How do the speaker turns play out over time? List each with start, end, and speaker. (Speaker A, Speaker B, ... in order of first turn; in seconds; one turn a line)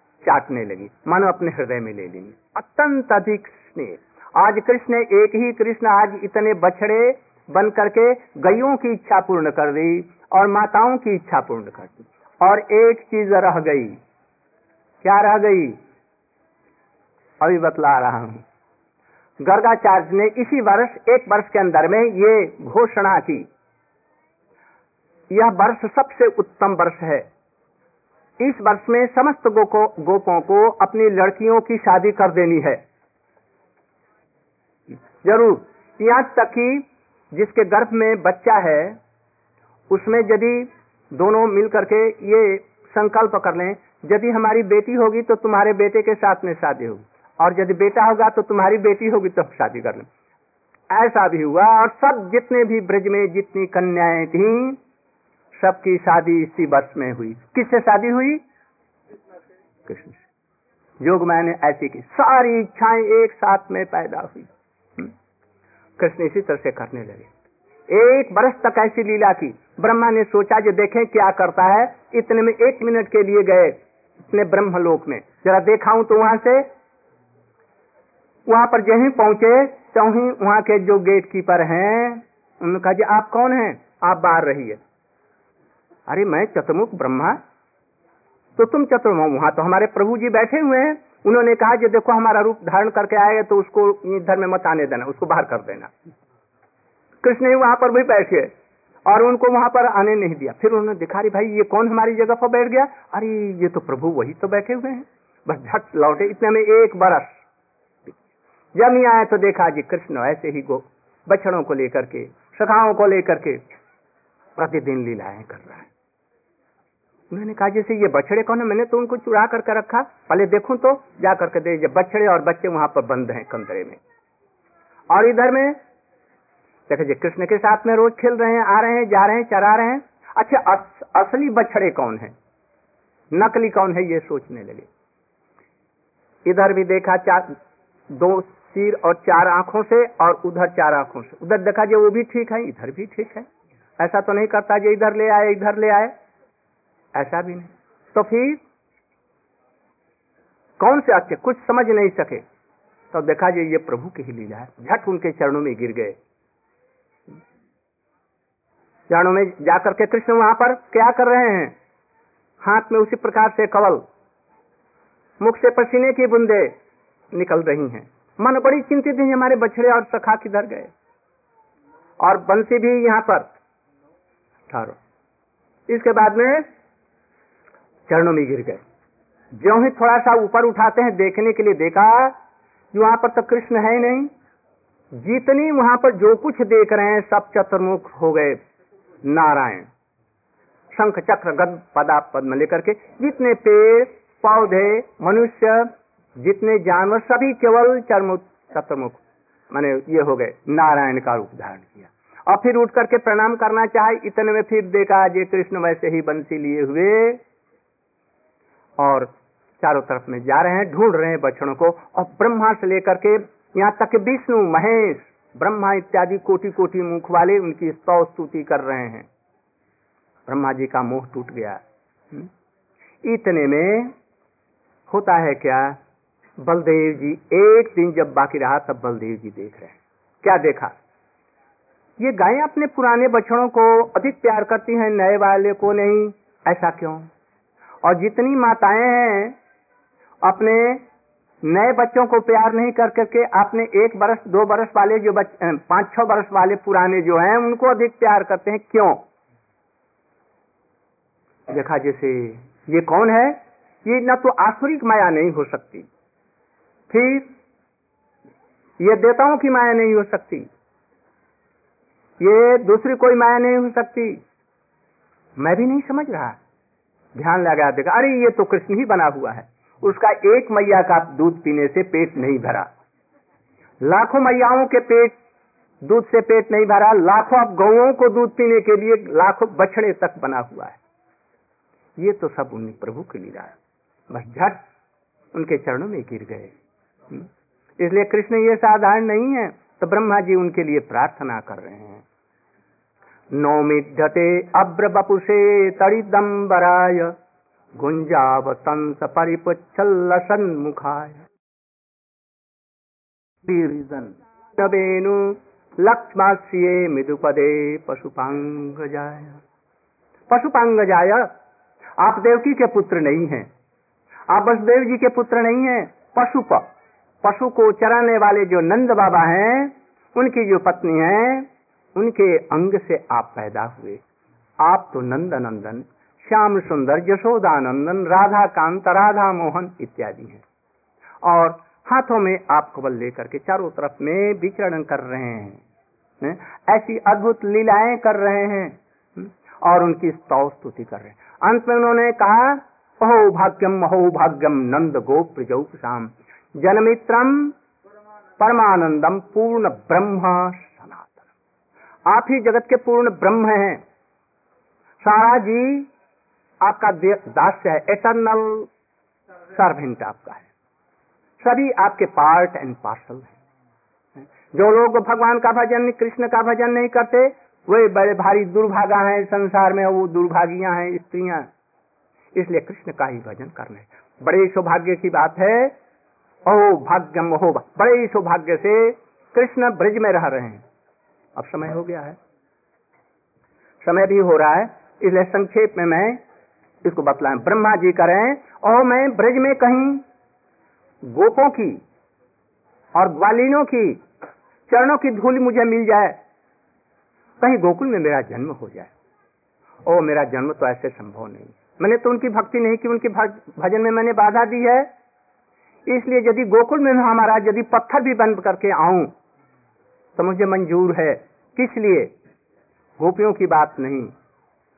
Speaker A: 0.2-14.0
Speaker A: 15.0-15.8
Speaker A: 17.4-18.4
Speaker A: 19.4-23.5
Speaker A: 25.3-27.3
Speaker A: 28.4-32.8
Speaker A: 35.2-39.0
Speaker A: 39.9-50.1
Speaker A: 50.9-54.8
Speaker A: 55.6-58.4
Speaker A: 59.9-60.2
Speaker A: 61.0-65.1
Speaker A: 66.0-67.3
Speaker A: 67.9-73.8
Speaker A: 74.3-76.7
Speaker A: 78.5-84.8
Speaker A: 86.1-87.4
Speaker A: 88.6-95.9
Speaker A: 97.2-98.5
Speaker A: 99.0-107.4
Speaker A: 108.8-113.6
Speaker A: 114.6-115.9
Speaker A: 117.3-124.0
Speaker A: 125.1-125.8
Speaker A: 126.9-132.3
Speaker A: 133.3-134.9
Speaker A: 136.4-137.5
Speaker A: 138.1-143.5
Speaker A: 144.0-146.2
Speaker A: 147.2-148.6
Speaker A: 150.8-152.4
Speaker A: 153.1-156.2
Speaker A: 159.1-161.8
Speaker A: 162.6-164.0
Speaker A: 165.4-166.7
Speaker A: 167.3-170.9
Speaker A: 172.2-173.5
Speaker A: 174.7-175.0
Speaker A: 175.9-176.7
Speaker A: 178.1-178.8
Speaker A: 179.6-182.3
Speaker A: 182.9-184.3
Speaker A: 185.2-188.6
Speaker A: 189.2-189.9
Speaker A: 190.9-207.4
Speaker A: 209.0-219.3
Speaker A: 220.5-221.8
Speaker A: 223.2-224.1
Speaker A: 225.1-226.0
Speaker A: 226.6-230.9
Speaker A: 232.2-237.3
Speaker A: 238.0-239.6
Speaker A: 240.4-241.0
Speaker A: 241.6-249.2
Speaker A: 251.7-256.1
Speaker A: 257.1-257.5
Speaker A: 259.0-260.7
Speaker A: 262.4-264.4
Speaker A: 265.6-266.6
Speaker A: 267.4-272.9
Speaker A: 274.0-275.4
Speaker A: 276.0-281.0
Speaker A: 282.2-283.7
Speaker A: 284.3-284.8
Speaker A: 285.5-286.7
Speaker A: 288.0-292.2
Speaker A: 293.5-297.4
Speaker A: 298.0-301.5
Speaker A: 303.6-309.6
Speaker A: 310.5-311.5
Speaker A: 312.2-313.7
Speaker A: 314.5-316.9
Speaker A: 317.4-324.2
Speaker A: 324.8-330.6
Speaker A: 331.4-335.8
Speaker A: 336.4-347.8
Speaker A: 348.6-351.4
Speaker A: 352.3-354.0
Speaker A: 355.2-356.1
Speaker A: 356.8-358.9
Speaker A: 359.8-360.7
Speaker A: 361.6-363.6
Speaker A: 364.7-371.7
Speaker A: 372.5-376.0
Speaker A: 376.7-380.8
Speaker A: 381.6-382.4
Speaker A: 384.0-386.4
Speaker A: 387.0-390.2
Speaker A: 391.2-392.0
Speaker A: 393.1-394.2
Speaker A: 394.9-396.4
Speaker A: 397.6-399.1
Speaker A: 400.0-405.1
Speaker A: 406.1-409.3
Speaker A: 410.4-412.3
Speaker A: 413.2-414.3